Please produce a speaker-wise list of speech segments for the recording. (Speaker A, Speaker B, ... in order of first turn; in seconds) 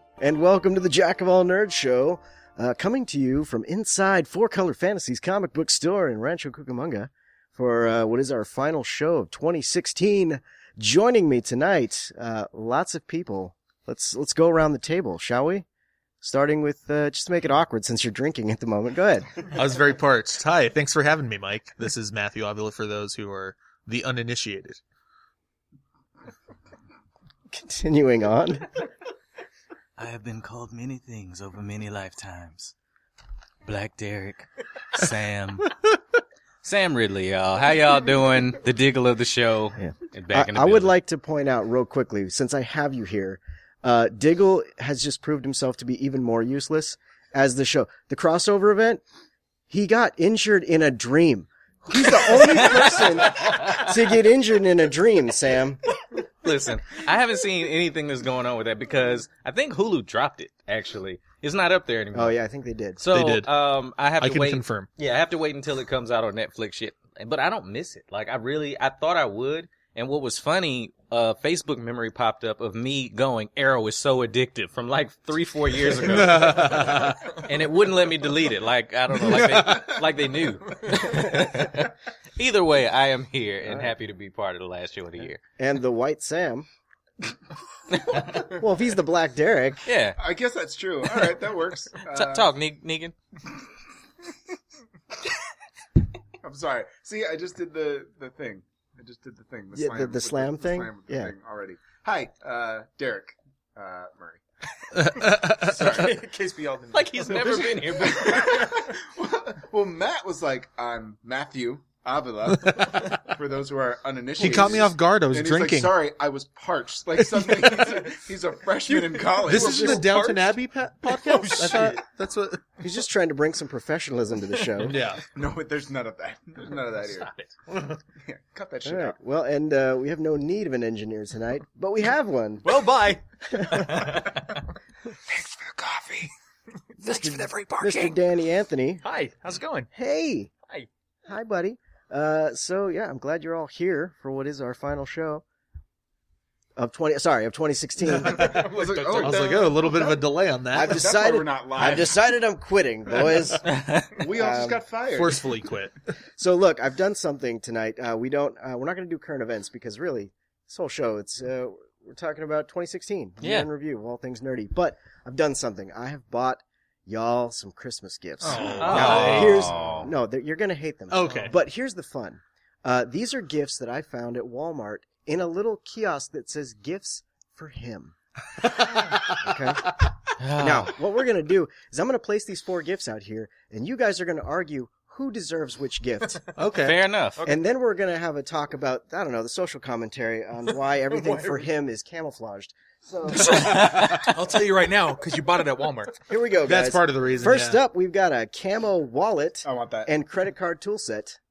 Speaker A: 0.2-15.6, 16.2-19.4, 27.5-28.7, 39.8-49.0, 49.7-55.8, 62.1-63.0, 81.0-81.5, 83.6-83.9, 85.6-86.7, 88.3-89.9, 99.7-101.3, 122.8-125.0, 128.8-132.8, 133.5-134.2, 137.1-139.0, 139.9-140.5, 141.3-145.4, 146.8-148.7, 150.7-153.6, 154.3-154.8, 156.4-178.1, 179.3-180.0, 180.6-186.4, 187.4-193.8, 196.3-201.4
Speaker B: 19.5-24.8, 63.1-63.5, 64.2-64.9, 75.9-77.3, 79.2-79.9, 104.9-106.1, 112.6-113.0, 114.4-115.9, 117.2-117.9, 119.4-122.7, 124.8-125.2, 127.2-128.0, 148.1-151.1, 155.1-155.9, 168.5-169.7, 171.1-171.5, 178.6-179.4, 186.6-187.0, 196.6-197.8
Speaker C: 30.0-32.7, 33.6-35.7, 36.6-40.9, 56.4-62.4, 63.0-85.4, 88.0-88.4, 89.8-90.2, 92.0-93.1, 106.9-108.6, 153.6-154.2, 163.4-163.7, 168.8-170.1, 180.4-181.0, 186.8-187.4, 193.4-194.3
Speaker D: 51.9-52.9, 90.2-92.5, 96.4-104.4, 105.0-106.2, 107.9-120.3, 125.3-127.3, 128.2-129.2, 135.2-136.3, 148.2-150.1, 150.8-152.2, 154.1-155.6, 168.5-170.0, 199.6-200.1
Speaker E: 105.5-108.5, 118.8-122.0, 132.6-134.6, 137.0-138.1, 139.0-139.9, 148.4-150.1, 171.2-171.5, 191.1-191.7, 193.3-196.2